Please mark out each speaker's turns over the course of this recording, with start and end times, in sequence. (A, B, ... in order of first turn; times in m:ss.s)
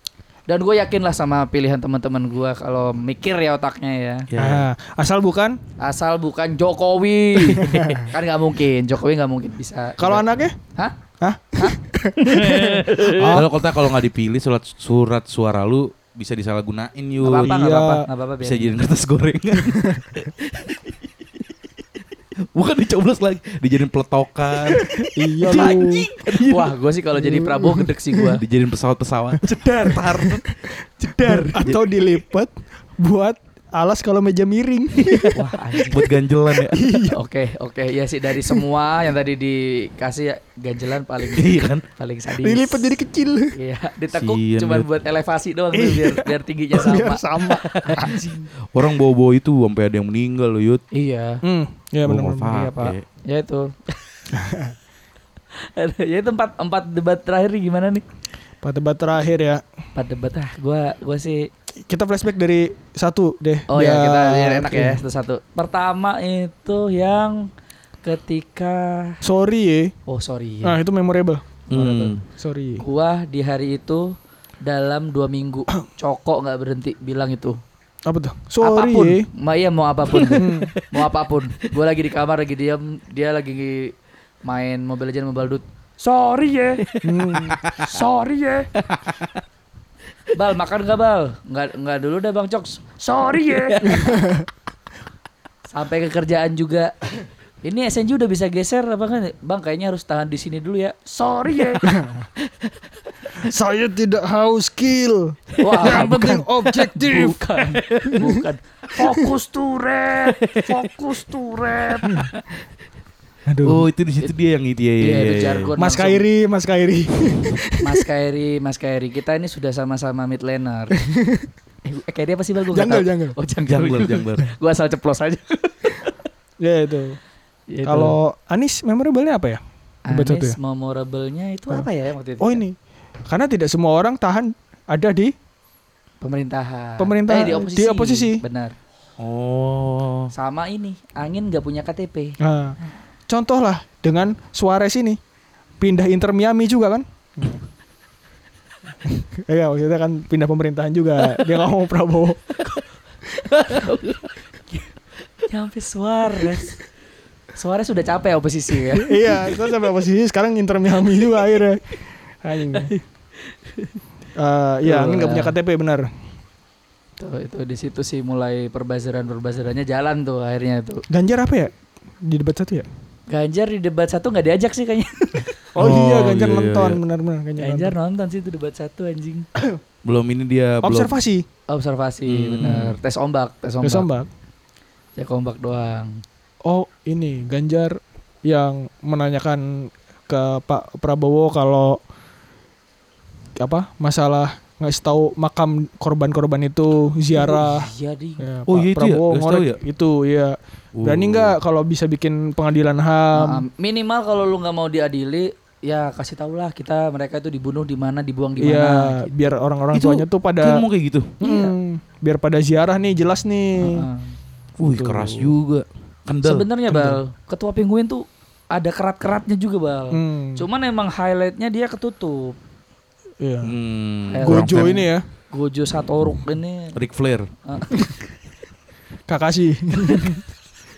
0:00.5-0:04.3 A
0:04.3-0:04.7 B
0:04.4-0:05.6 C
0:05.8-0:10.2 A
0:07.4-0:08.1 C
0:10.0-0:10.6 C
0:11.2-0:13.5 C
0:11.6-0:13.4 A
0:13.2-0:17.5 B
0:17.2-0:18.9 A
0:17.4-0:18.1 C
0:18.4-0:21.0 B
0:19.7-0:20.1 C
0:22.5-0:26.7 B
0:24.8-0:26.0 C
0:25.5-0:28.4 A
0:27.2-0:28.4 C
0:28.3-0:30.5 B
0:29.8-0:30.5 C
0:31.1-0:31.6 A
0:31.2-0:31.8 B
0:31.2-0:35.8 C
0:35.1-0:35.4 B
0:35.3-0:36.1 A
0:35.9-0:37.0 B
0:36.6-0:37.2 C
0:37.1-0:42.9 A
0:41.3-0:41.8 B
0:42.4-0:43.5 C
0:43.6-0:48.5 A
0:44.1-0:44.9 B
0:45.7-0:48.1 C
0:48.7-0:50.8 B
0:50.9-0:51.4 A
0:51.4-0:52.7 C
0:52.0-0:53.0 B
0:52.5-0:54.0 A
0:54.3-0:54.8 C
0:55.6-0:58.0 A
0:58.6-0:59.6 C
1:00.0-1:01.5 A
1:01.8-1:05.0 C
1:03.7-1:07.5 A
1:08.0-1:09.2 A
1:09.2-1:09.9 C
1:10.1-1:10.8 A
1:10.6-1:11.4 C
1:11.7-1:12.2 A
1:11.7-1:12.2 B
1:12.3-1:12.8 C
1:12.8-1:17.6 A
1:18.1-1:19.3 C
1:18.6-1:23.9 A
1:20.1-1:20.9 B
1:20.4-1:20.7 C
1:24.4-1:26.8 A
1:26.9-1:28.0 B
1:27.0-1:27.6 C
1:27.8-1:28.7 A
1:28.8-1:29.4 B
1:30.3-1:34.2 A
1:33.5-1:34.1 B
1:33.8-1:34.5 C
1:35.7-1:37.0 A
1:37.6-1:41.9 A
1:41.8-1:42.3 C
1:43.4-1:47.4 C
1:45.6-1:46.1 B
1:45.6-1:52.4 A
1:47.6-1:48.2 B
1:48.1-1:48.4 C
1:49.0-1:49.2 C
1:50.2-1:50.9 B
1:52.0-1:52.3 C
1:53.5-1:53.9 C
1:53.6-1:55.7 B
1:55.0-1:56.2 A
1:55.8-1:58.1 C
1:57.8-2:01.0 A
2:01.0-2:01.5 C
2:01.8-2:06.2 A
2:02.7-2:03.4 C
2:03.7-2:04.5 B
2:06.6-2:07.2 C
2:07.7-2:08.2 A
2:07.8-2:09.6 C
2:10.1-2:12.6 A
2:10.1-2:10.6 C
2:12.4-2:12.8 C
2:13.3-2:15.3 C
2:16.2-2:18.8 A
2:17.0-2:18.4 C
2:19.2-2:20.3 B
2:20.3-2:22.4 A
2:22.4-2:22.8 C
2:23.3-2:25.2 C
2:25.8-2:27.6 C
2:29.0-2:32.4 C
2:33.5-2:34.9 A
2:33.5-2:34.3 B
2:35.4-2:36.8 A
2:37.5-2:39.6 A
2:38.9-2:41.8 C
2:42.4-2:42.9 C
2:42.7-2:43.0 A
2:44.4-2:46.1 C
2:44.8-2:45.6 A
2:47.2-2:51.0 A
2:51.1-2:52.9 C
2:53.3-2:55.6 A
2:55.8-2:58.0 C
2:55.8-2:57.0 B
2:57.6-2:59.5 A
3:00.0-3:01.1 B
3:00.8-3:01.5 C
3:01.7-3:04.1 A
3:02.3-3:03.0 B
3:02.6-3:02.9 C
3:03.8-3:04.3 C
3:05.2-3:06.2 A
3:06.6-3:12.0 C
3:13.6-3:23.7 C
3:17.3-3:18.5 A
3:18.7-3:19.8 B
3:21.0-3:21.6 B
3:23.3-3:29.3 A
3:28.6-3:30.8 C
3:29.9-3:31.4 B
3:31.4-3:34.1 C
3:31.4-3:31.7 A
3:33.8-3:34.4 A
3:34.8-3:36.7 B
3:34.8-3:35.5 C
3:36.4-3:42.6 A
3:36.9-3:37.2 C
3:40.1-3:40.7 C
3:43.4-3:43.7 C
3:43.6-3:44.9 B
3:44.3-3:47.0 A
3:44.4-3:45.3 C
3:47.0-3:47.5 B
3:47.6-3:48.2 A
3:49.3-3:50.4 C
3:50.0-3:50.4 A